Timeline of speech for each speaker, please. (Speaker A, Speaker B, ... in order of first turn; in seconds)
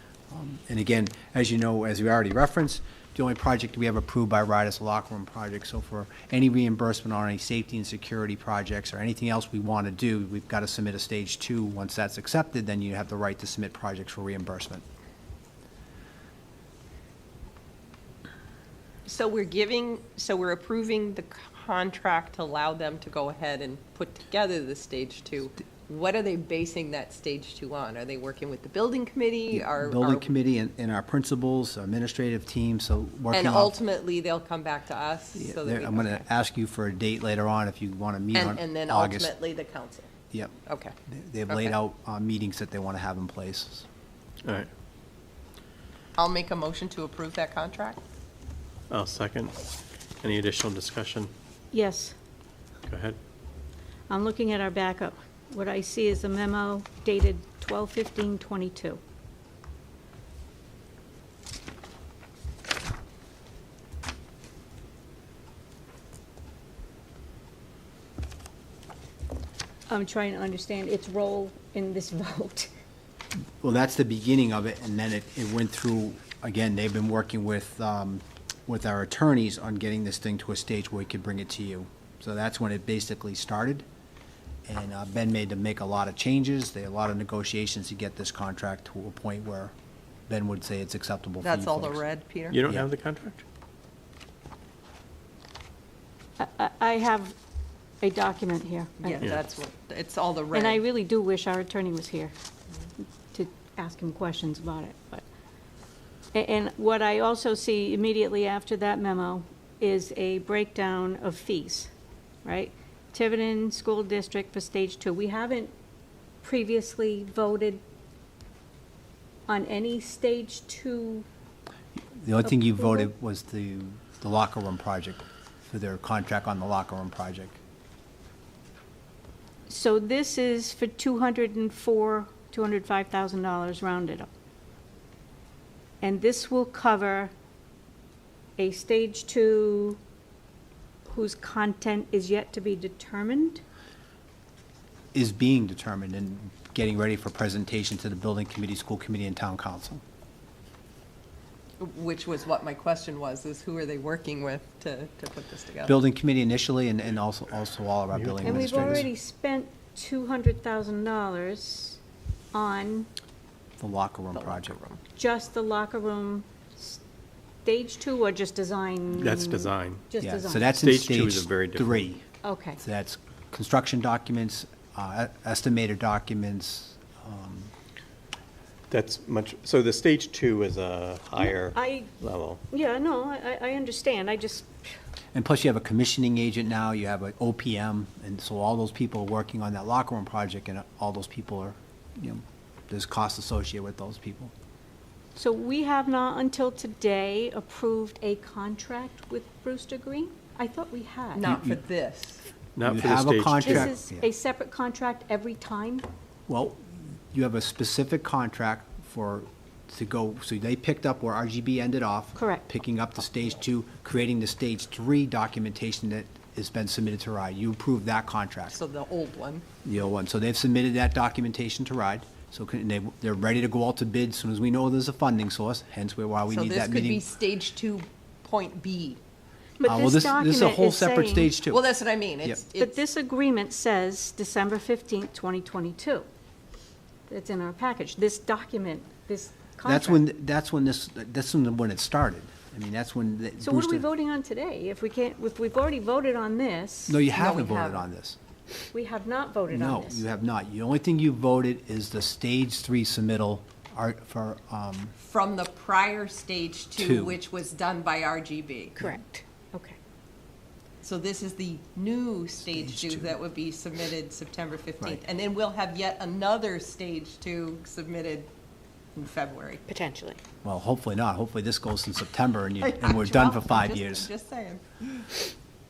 Speaker A: 0.3-14.8, 29.5-33.8, 35.4-39.4, 41.1-43.9, 73.6-83.8, 84.7-89.7, 90.3-92.0, 122.2-127.6, 145.1-150.0, 155.9-159.1, 163.8-164.8, 170.2-172.2, 172.8-177.7, 185.3-194.5, 201.4-201.8, 202.8-204.3, 206.5-218.8, 219.8-227.2, 229.8-231.8, 239.8-244.1, 247.1-248.4, 249.7-255.1, 257.0-257.4, 262.7-263.3, 270.6-274.3
Speaker B: 19.1-30.3, 33.3-36.2, 38.3-40.1, 40.7-41.0, 41.5-41.8, 46.2-48.0, 91.4-92.6, 99.0-100.8, 151.8-156.0, 164.3-165.0, 201.3-202.5, 218.7-219.7, 226.5-229.2, 231.7-233.0, 247.3-248.0, 255.2-259.0, 261.0-268.5, 269.2-269.8, 272.8-275.4
Speaker C: 44.4-44.7, 48.9-49.5, 50.2-51.3, 52.9-53.2, 92.5-93.4, 158.2-158.9, 169.2-170.0, 170.7-172.1, 178.9-182.6, 202.8-203.9
Speaker D: 51.7-52.1, 54.1-59.0, 69.9-72.7, 96.4-97.4, 98.0-99.3, 100.5-102.3, 103.3-105.2, 106.3-111.9, 112.4-115.7, 116.4-117.8, 119.5-121.2, 122.4-123.1, 129.7-134.3, 136.0-137.3, 138.6-140.0, 141.1-143.6, 158.4-162.0, 162.5-163.1, 165.2-167.0, 167.6-170.7, 172.4-172.8, 181.6-182.1, 182.7-184.7, 195.4-201.5, 203.6-206.1, 212.4-212.6, 229.8-231.6, 232.8-236.2, 237.3-240.2, 243.6-247.2, 248.9-250.2, 259.0-260.0, 269.9-270.4